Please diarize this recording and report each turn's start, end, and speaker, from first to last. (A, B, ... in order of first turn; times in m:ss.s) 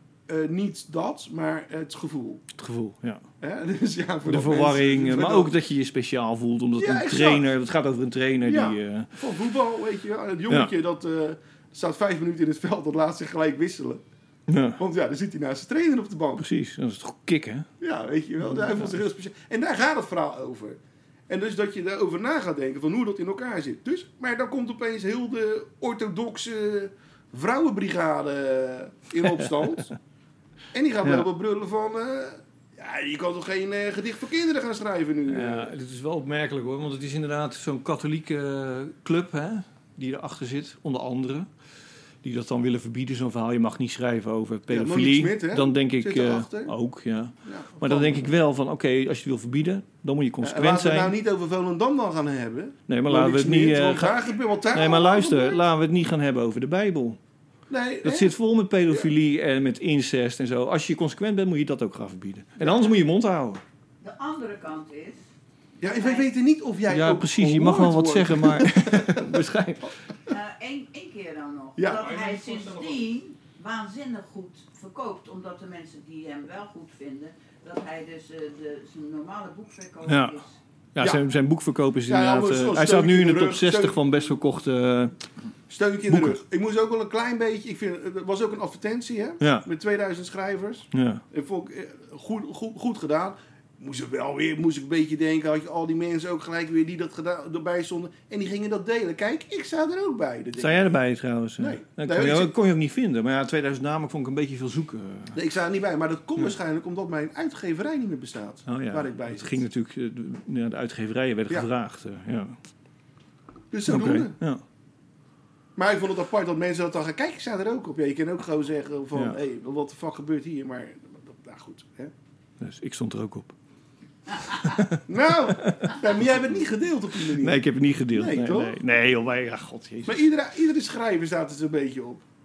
0:00.3-0:02.4 A
0:02.6-0:03.2 B
0:03.4-0:05.5 A
0:04.3-0:09.1 B
0:06.8-0:07.5 A
0:08.4-0:14.0 A
0:14.5-0:14.8 B
0:14.8-0:16.4 A
0:16.4-0:17.7 B
0:17.8-0:29.9 A
0:18.5-0:18.9 B
0:30.7-0:35.7 A
0:35.3-0:41.5 B
0:42.2-0:51.2 B
0:44.7-0:46.8 A
0:47.4-0:48.3 A
0:50.4-0:55.6 A
0:52.9-0:57.2 B
0:57.7-0:58.3 A
0:58.0-1:03.6 B
1:02.6-1:02.9 A
1:04.0-1:05.2 C
1:05.8-1:09.4 A
1:05.9-1:06.3 C
1:06.9-1:09.9 B
1:10.3-1:20.6 C
1:11.8-1:12.2 A
1:20.1-1:20.3 B
1:20.9-1:25.1 B
1:21.0-1:21.2 A
1:22.1-1:24.0 A
1:25.7-1:41.0 A
1:26.1-1:26.4 B
1:29.4-1:29.7 B
1:30.9-1:31.2 B
1:40.6-1:45.4 B
1:41.6-1:42.5 A
1:45.3-1:49.6 A
1:48.7-1:52.6 B
1:53.7-1:54.4 A
1:53.9-1:54.6 B
1:55.8-2:02.1 A
2:02.6-2:03.5 B
2:04.4-2:06.0 B
2:05.1-2:08.8 A
2:07.3-2:10.2 B
2:10.0-2:12.2 A